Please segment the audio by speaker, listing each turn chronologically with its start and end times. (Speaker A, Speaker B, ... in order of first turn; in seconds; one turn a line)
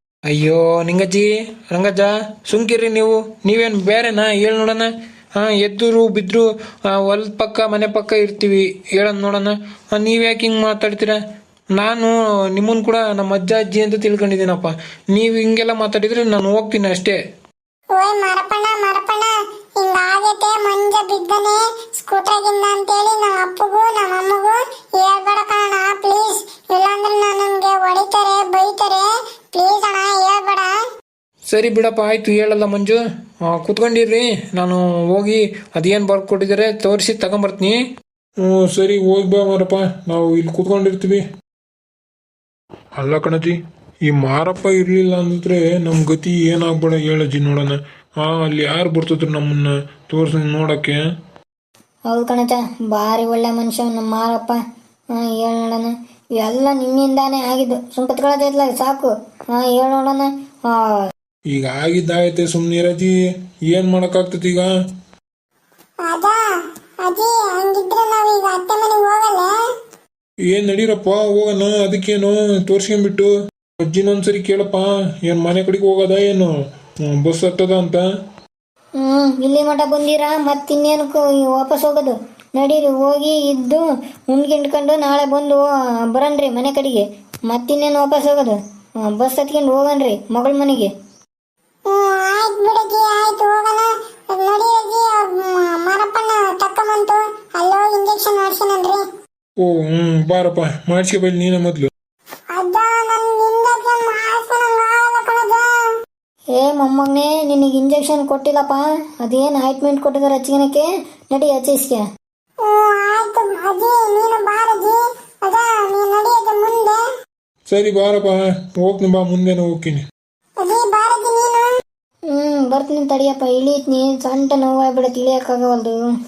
Speaker A: 0.3-11.2
Speaker A: 11.8-17.2
Speaker B: 17.9-30.7
Speaker A: 31.5-37.8
Speaker C: 38.4-41.2
Speaker C: 43.0-51.0
Speaker D: 52.1-54.6
Speaker D: 55.1-61.1
Speaker C: 61.5-63.1
Speaker C: 63.7-64.7
Speaker B: 66.0-66.4
Speaker B: 67.0-69.5
Speaker C: 70.5-73.3
Speaker C: 73.8-76.5
Speaker C: 77.1-78.0
Speaker D: 79.0-90.9
Speaker B: 91.9-99.0
Speaker C: 99.6-101.9
Speaker B: 102.5-105.7
Speaker D: 106.5-112.0
Speaker B: 112.6-117.0
Speaker C: 117.7-120.1
Speaker B: 120.6-121.7
Speaker D: 122.3-126.0